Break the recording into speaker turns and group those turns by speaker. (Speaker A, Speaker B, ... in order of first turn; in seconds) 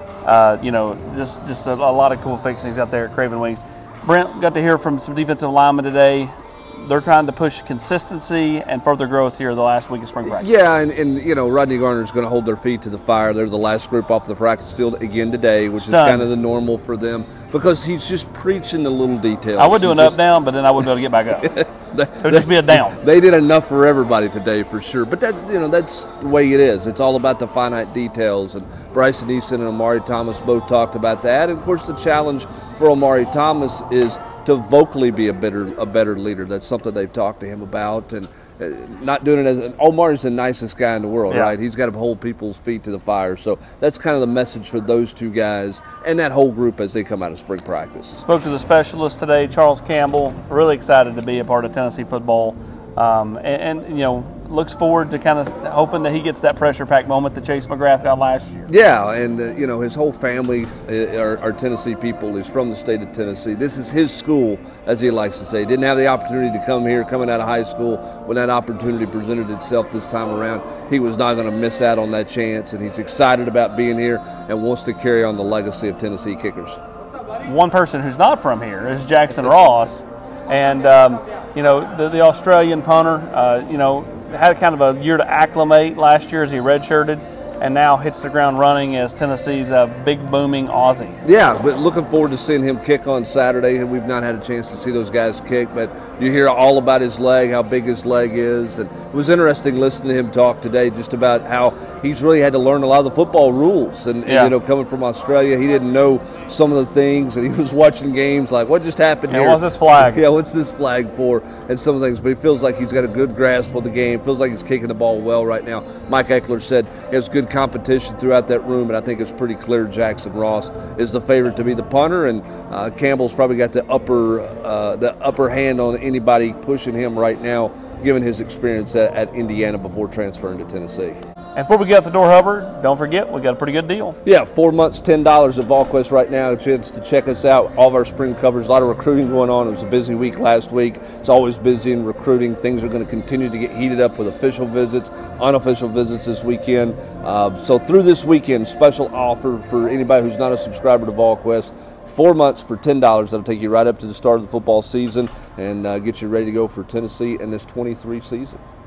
Speaker A: 0.2-10.5, 15.8-16.3, 19.6-21.6, 22.2-23.0, 41.3-41.5, 48.2-58.7, 77.4-91.2, 104.2-104.5, 109.3-110.2, 131.6-134.2
Speaker B: 10.2-20.2, 21.4-48.2, 58.7-76.8, 91.2-131.2, 134.2-158.6